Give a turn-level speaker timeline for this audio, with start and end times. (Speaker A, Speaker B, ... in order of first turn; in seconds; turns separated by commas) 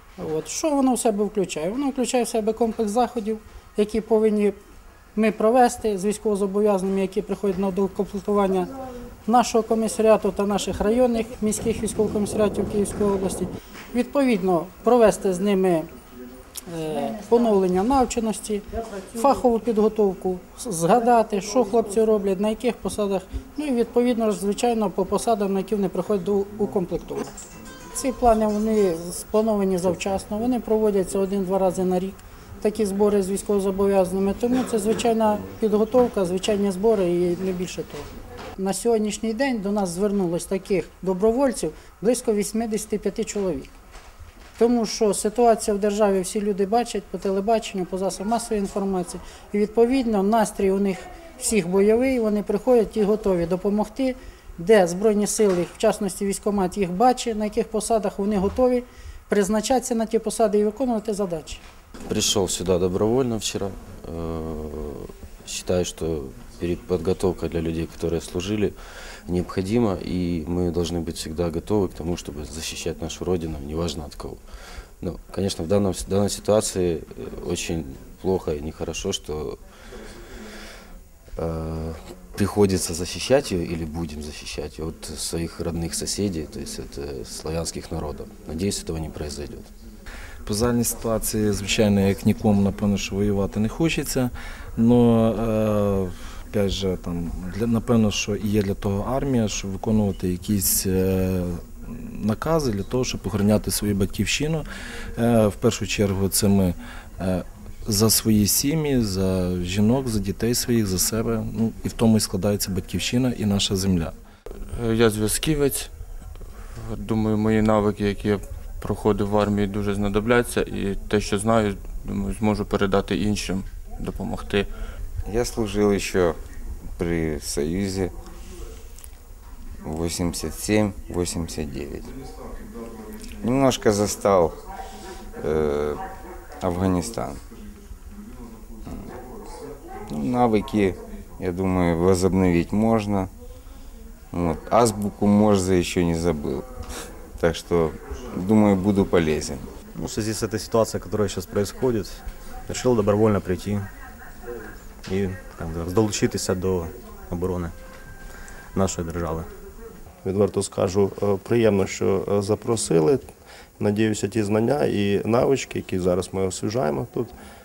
Speaker A: 0.2-4.5, Speaker A: 5.2-8.7, Speaker A: 9.3-15.9, Speaker A: 16.7-27.2, Speaker A: 27.9-43.7, Speaker A: 44.6-61.6, Speaker B: 62.1-68.8, Speaker B: 69.3-74.4, Speaker B: 75.0-79.6, Speaker B: 81.4-89.7, Speaker C: 90.4-104.7, Speaker C: 105.2-114.1, Speaker D: 114.7-115.9, Speaker D: 116.7-124.7, Speaker E: 125.3-126.3, Speaker E: 127.0-128.1, Speaker E: 129.8-132.1, Speaker E: 133.4-134.6, Speaker E: 135.4-136.0, Speaker E: 136.6-137.4, Speaker E: 140.1-143.3, Speaker E: 144.3-146.7, Speaker E: 147.4-149.8, Speaker F: 149.8-153.9, Speaker F: 155.1-157.7, Speaker F: 158.7-159.5, Speaker G: 160.2-163.3, Speaker G: 163.8-167.3